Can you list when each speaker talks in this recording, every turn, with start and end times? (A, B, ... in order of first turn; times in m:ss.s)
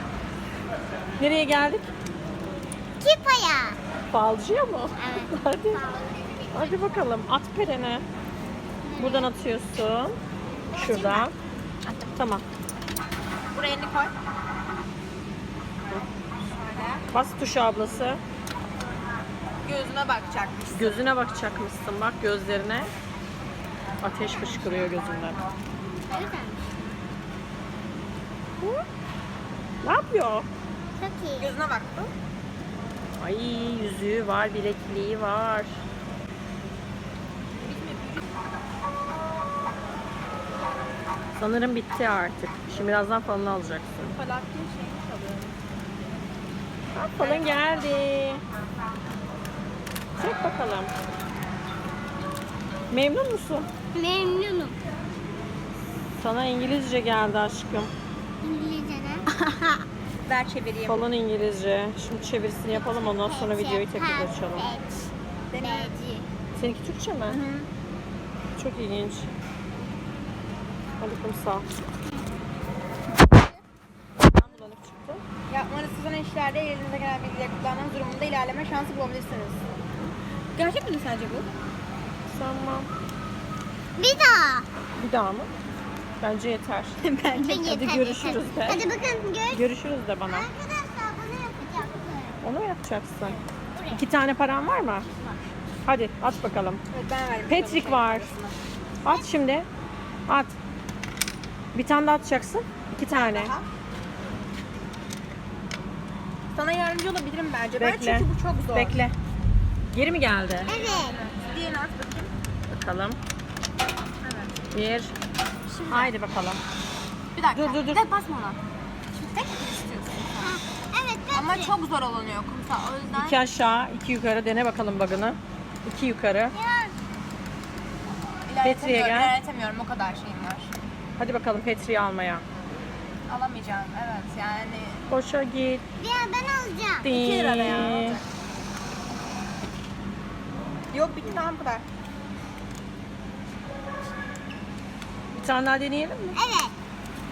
0:01.2-0:01.9 A
0:03.0-0:03.8 B
0:04.1-0:05.9 A
0:05.0-0:07.0 B
0:06.5-0:08.0 A
0:08.8-0:09.3 B
0:09.0-0:10.2 A
0:10.7-0:11.3 B
0:10.7-0:11.3 A
0:12.1-0:12.4 A
0:13.5-0:14.1 C
0:16.6-0:17.0 C
0:17.1-0:18.2 A
0:19.6-0:21.1 C
0:20.7-0:22.9 A
0:24.0-0:25.4 A
0:26.1-0:27.0 B
0:28.6-0:28.8 A
0:29.8-0:30.5 A
0:31.0-0:31.5 B
0:31.4-0:32.1 C
0:33.2-0:35.8 A
0:37.6-0:38.2 C
0:41.4-0:44.1 A
0:44.0-0:45.6 C
0:46.9-0:48.4 A
0:47.2-0:47.7 C
0:50.2-0:50.9 A
0:52.9-0:53.7 A
0:53.9-0:54.8 B
0:56.2-0:57.9 A
0:58.4-0:59.3 B
0:59.5-0:59.7 C
1:00.2-1:01.0 C
1:00.9-1:04.7 A
1:02.7-1:05.0 B
1:05.5-1:05.9 C
1:05.6-1:06.3 B
1:06.6-1:07.4 A
1:07.3-1:07.7 C
1:08.6-1:09.3 A
1:11.0-1:11.7 A
1:14.3-1:15.2 A
1:15.5-1:19.6 C
1:20.6-1:21.5 C
1:22.3-1:22.9 A
1:24.0-1:24.7 B
1:25.0-1:25.5 A
1:26.2-1:27.0 A
1:27.0-1:27.8 C
1:27.4-1:29.7 B
1:27.6-1:28.9 A
1:29.5-1:30.5 A
1:30.3-1:32.4 B
1:32.4-1:33.4 A
1:33.2-1:34.0 B
1:33.9-1:35.1 A
1:35.9-1:36.8 A
1:36.9-1:38.6 C
1:37.5-1:38.3 A
1:39.0-1:39.7 A
1:40.3-1:40.6 A
1:41.7-1:43.5 A
1:43.1-1:43.7 C
1:46.6-1:49.1 C
1:47.8-1:49.1 A
1:49.9-1:50.7 A
1:50.7-1:51.2 B
1:50.7-1:52.3 C
1:52.7-1:53.2 A
1:54.2-1:54.6 C
1:54.7-1:55.1 A
1:55.7-1:56.1 B
1:55.9-1:56.6 A
1:57.4-1:58.6 C
1:57.5-1:58.1 A
1:59.2-2:00.6 C
2:00.4-2:01.7 B
2:01.3-2:03.4 C
2:03.2-2:06.5 A
2:06.5-2:06.9 B
2:08.5-2:10.7 C
2:08.6-2:09.3 A
2:11.2-2:12.4 A
2:13.3-2:15.0 C
2:15.1-2:15.8 A
2:16.0-2:17.1 B
2:17.0-2:18.2 A
2:17.1-2:18.3 C
2:20.9-2:21.8 C
2:25.4-2:26.4 A
2:26.3-2:26.7 B